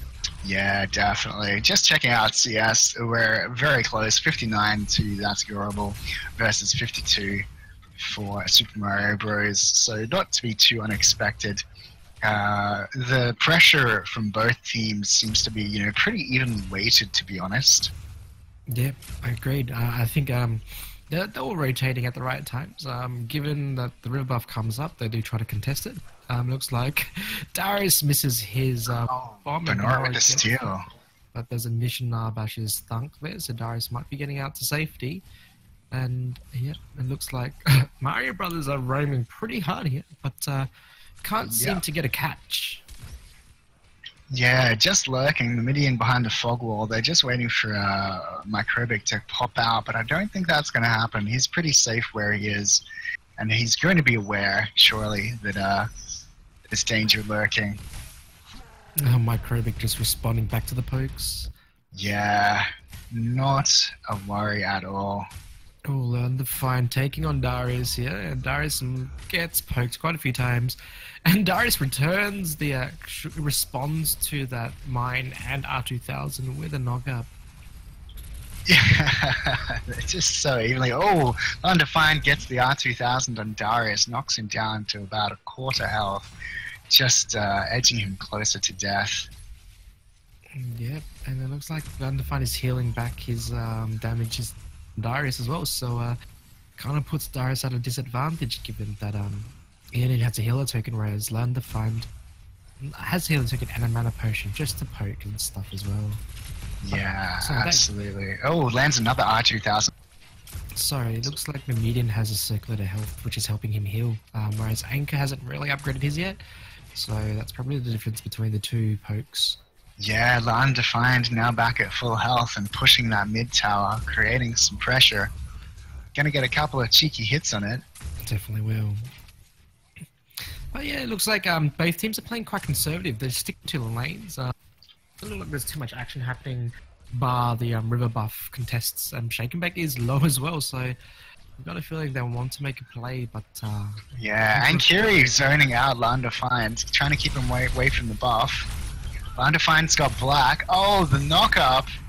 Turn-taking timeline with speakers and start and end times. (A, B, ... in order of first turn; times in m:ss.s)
0:00.4-0:07.4 A
0:08.0-0:11.6 A
0:12.2-0:17.9 A
0:18.7-0:30.5 B
0:29.0-0:30.8 A
0:31.3-0:35.2 B
0:35.9-0:40.7 B
0:41.2-0:42.8 B
0:41.5-0:41.8 A
0:44.3-0:52.8 A
0:53.4-0:55.9 A
0:56.7-0:57.8 A
0:59.0-1:01.5 B
1:01.9-1:05.2 A
1:05.8-1:17.3 B
1:18.7-1:26.3 A
1:26.9-1:29.3 A
1:30.5-1:36.2 B
1:36.8-1:42.1 B
1:42.8-1:46.2 B
1:46.8-1:49.9 A
1:46.9-1:47.9 B
1:50.8-1:56.4 B
1:56.9-1:59.6 B
2:00.0-2:05.3 A
2:06.1-2:07.8 A
2:08.2-2:09.1 B
2:10.7-2:14.5 B
2:15.2-2:20.9 B
2:21.6-2:25.4 B
2:24.2-2:28.7 A
2:29.4-2:31.9 A